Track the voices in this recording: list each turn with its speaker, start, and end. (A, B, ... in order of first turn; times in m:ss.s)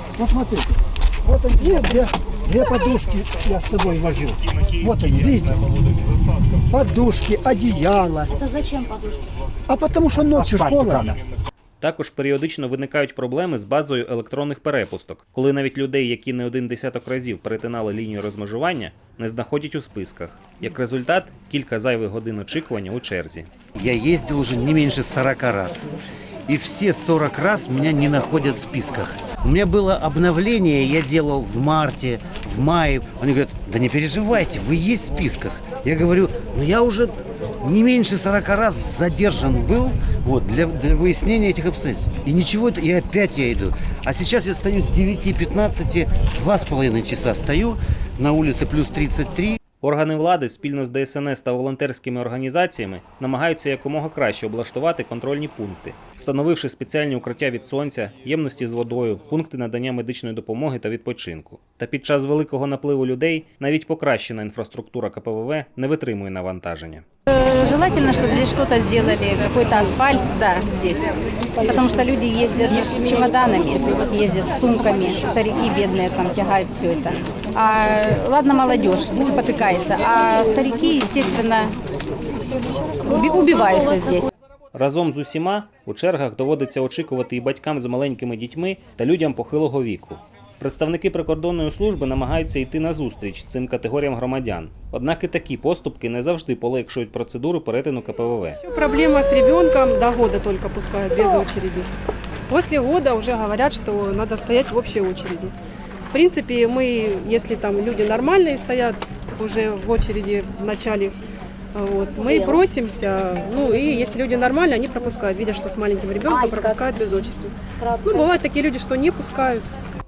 0:00.2-0:05.9 A
0:06.6-0:08.4 A
0:09.7-0:11.2 A
0:11.8-0:23.5 B
0:23.8-0:25.9 C
0:26.5-0:49.6 C
0:49.8-1:07.0 B
1:07.3-1:11.1 D
1:11.6-1:21.8 D
1:23.0-1:24.3 D
1:24.7-1:38.6 B
1:38.6-1:41.9 E
1:42.5-1:45.5 E
1:46.1-1:51.1 E
1:51.7-1:59.7 E